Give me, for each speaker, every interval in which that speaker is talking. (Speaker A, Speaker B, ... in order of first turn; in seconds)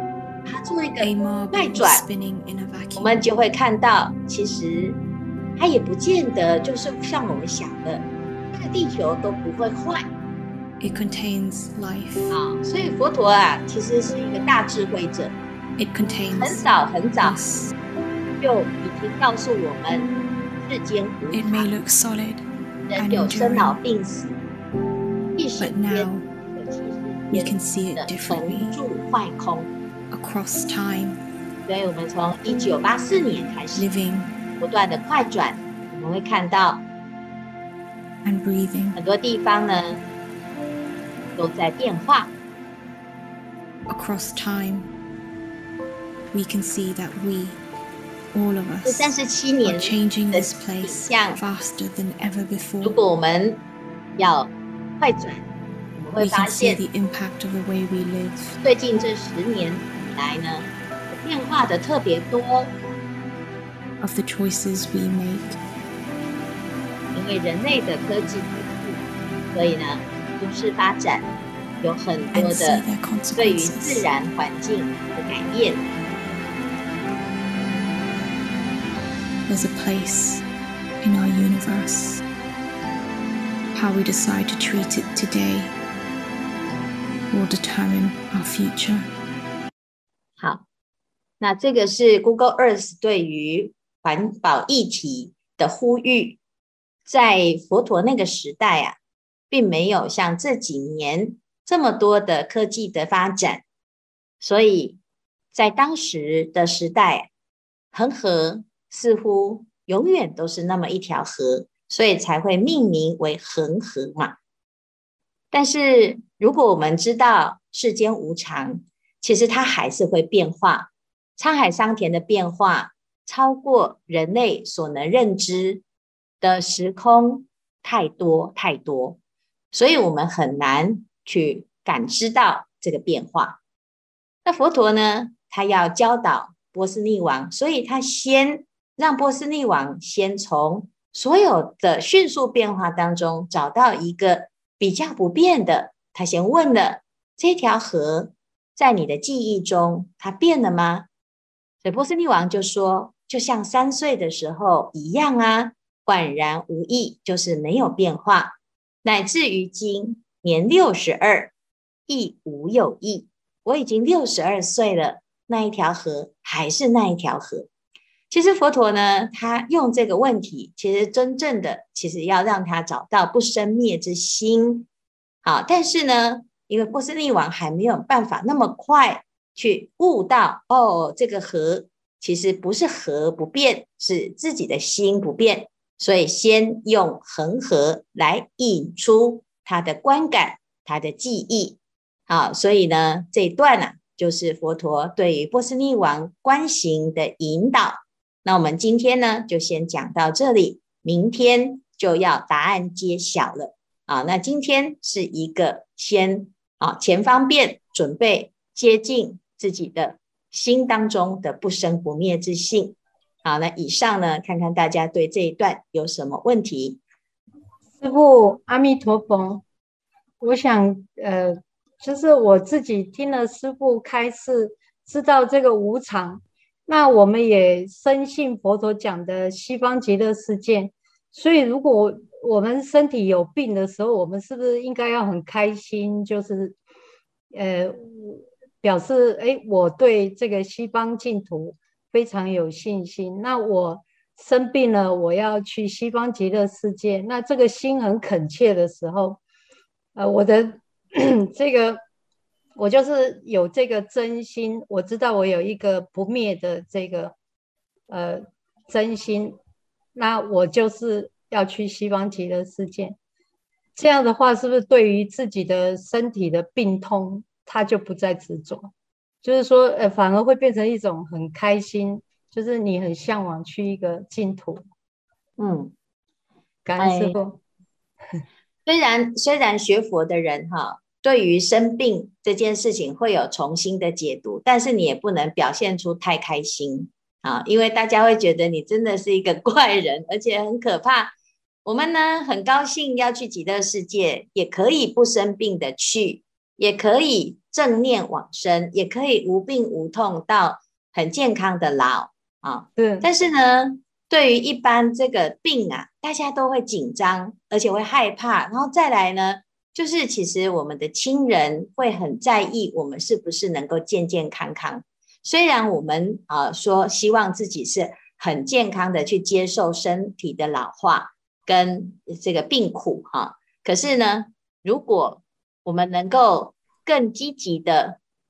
Speaker A: 0.5-2.0, 3.0-5.0, 5.6-10.1, 12.3-15.3, 16.3-17.4, 18.4-20.1, 20.6-21.7, 22.9-24.4, 25.4-29.7, 31.7-33.9, 34.6-36.8, 39.0-40.0, 41.4-42.3, 48.9-51.4, 52.8-53.6, 54.2-56.8, 58.6-62.7, 67.1-69.0, 69.5-71.3, 71.8-72.8, 73.4-75.9, 90.4-90.6, 91.4-96.4, 97.1-99.0, 99.5-103.6, 104.4-105.0, 105.5-107.3, 107.9-114.4, 115.5-125.8, 126.4-129.2, 129.7-133.6, 134.4-151.1, 151.8-161.5, 162.1-167.7, 168.3-174.9, 175.4-217.0, 275.6-275.9, 277.0-277.4, 278.9-291.3, 291.9-328.2
Speaker B: 1.0-3.2, 10.8-12.3, 15.8-16.7, 17.2-17.7, 21.3-23.8, 25.6-26.2, 27.3-28.8, 30.1-31.2, 33.8-34.4, 38.2-39.0, 43.9-44.9, 46.3-47.6, 48.3-49.1, 49.6-53.0, 56.2-58.6, 64.0-65.6, 72.3-74.1, 79.5-80.4, 81.0-82.2, 83.7-85.7, 87.3-89.1
Speaker C: 218.0-219.6, 220.4-236.8, 237.5-249.4, 250.2-252.0, 252.8-257.3, 258.1-259.6, 260.1-263.2, 264.0-268.9, 269.4-274.8, 276.9-277.6, 303.0-303.3